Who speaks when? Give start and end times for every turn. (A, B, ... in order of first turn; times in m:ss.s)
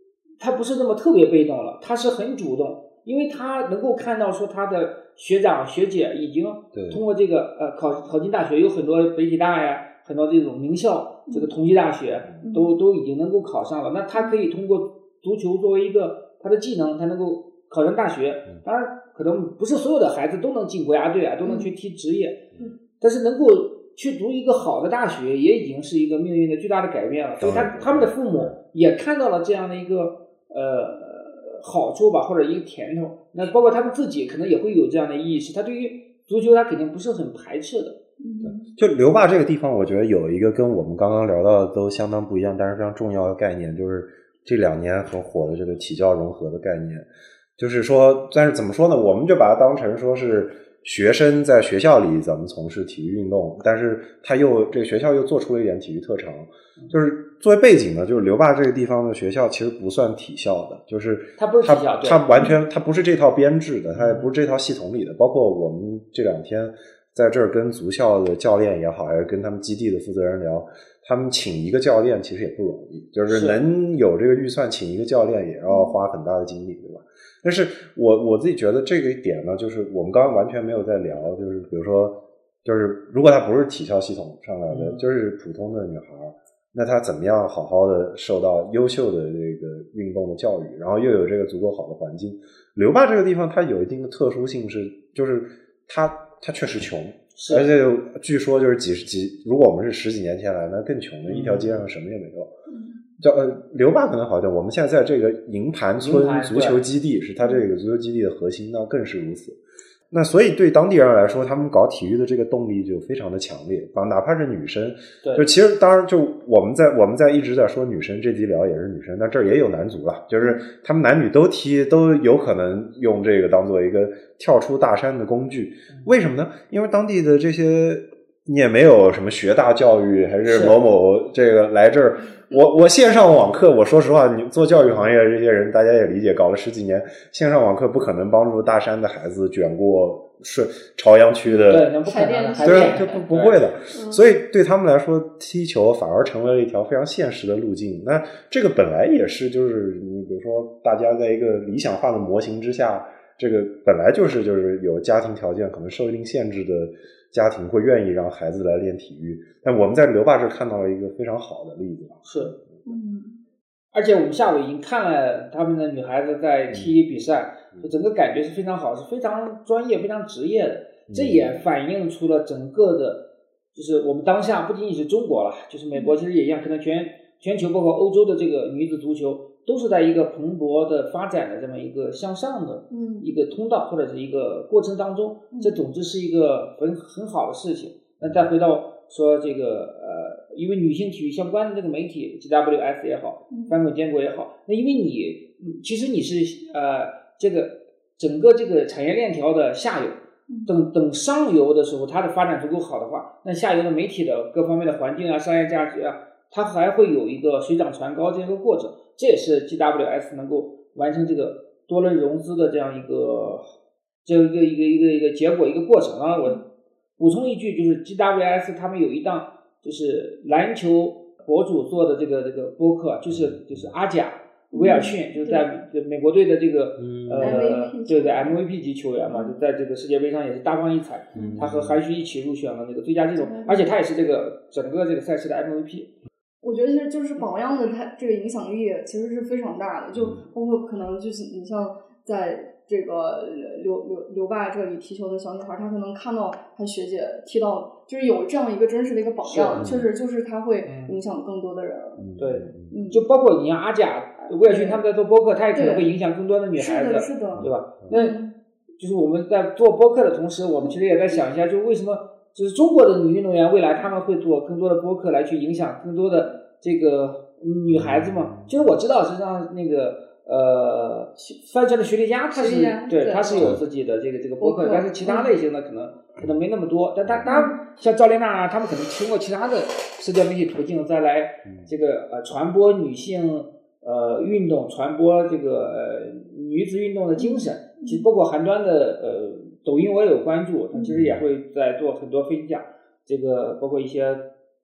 0:00.4-0:22.4 A
0:06.7-0:07.0 B
0:11.3-0:11.5 C
0:12.4-0:12.8 C
0:14.1-0:14.5 C
0:21.4-0:21.7 C
0:23.0-0:38.0 A
0:27.4-0:28.6 B
0:38.2-0:38.7 C
0:38.4-1:42.5 B
1:01.4-1:02.3 A
1:03.9-1:04.3 A
1:13.3-1:13.6 A
1:15.7-1:16.0 C
1:24.7-1:25.0 A
1:37.3-1:37.7 A
1:41.3-1:41.8 A
1:42.7-1:43.0 C
1:43.2-1:49.6 B
1:46.0-1:46.8 A
1:47.4-1:47.7 C
1:50.1-2:21.9 B
1:55.2-1:55.5 A
2:00.4-2:00.6 C
2:10.4-2:10.8 A
2:21.4-2:23.2 C
2:21.7-2:23.6 A
2:22.6-2:42.8 B
2:23.9-2:24.2 C
2:42.2-2:42.5 A
2:42.8-2:43.4 C
2:43.9-3:33.7 A
2:46.7-2:47.0 B
2:51.1-2:51.6 B
3:02.9-3:03.3 C
3:05.5-3:05.8 C
3:08.2-3:08.5 B
3:13.5-3:13.7 C
3:34.2-3:36.6 A
3:37.2-3:56.1 A
3:43.3-3:43.9 B
3:44.7-3:45.6 C
3:47.0-3:47.7 B
3:47.4-3:48.6 C
3:49.3-3:49.6 C
3:51.3-3:51.7 C
3:51.3-3:52.0 B
3:53.4-3:54.0 C
3:56.6-4:12.3 C
4:00.2-4:00.4 B
4:09.4-4:09.9 A
4:09.8-4:10.1 B
4:10.8-4:11.2 A
4:12.2-4:13.1 B
4:12.4-4:18.4 A
4:12.9-4:13.2 C
4:14.6-4:15.0 C
4:15.7-4:16.1 C
4:16.7-4:18.5 C
4:17.5-4:18.2 B
4:19.0-4:54.4 A
4:27.9-4:28.9 B
4:32.5-4:33.8 C
4:34.6-4:35.5 C
4:37.4-4:37.8 C
4:47.4-4:48.3 C
4:50.9-4:51.2 C
4:51.1-4:51.5 B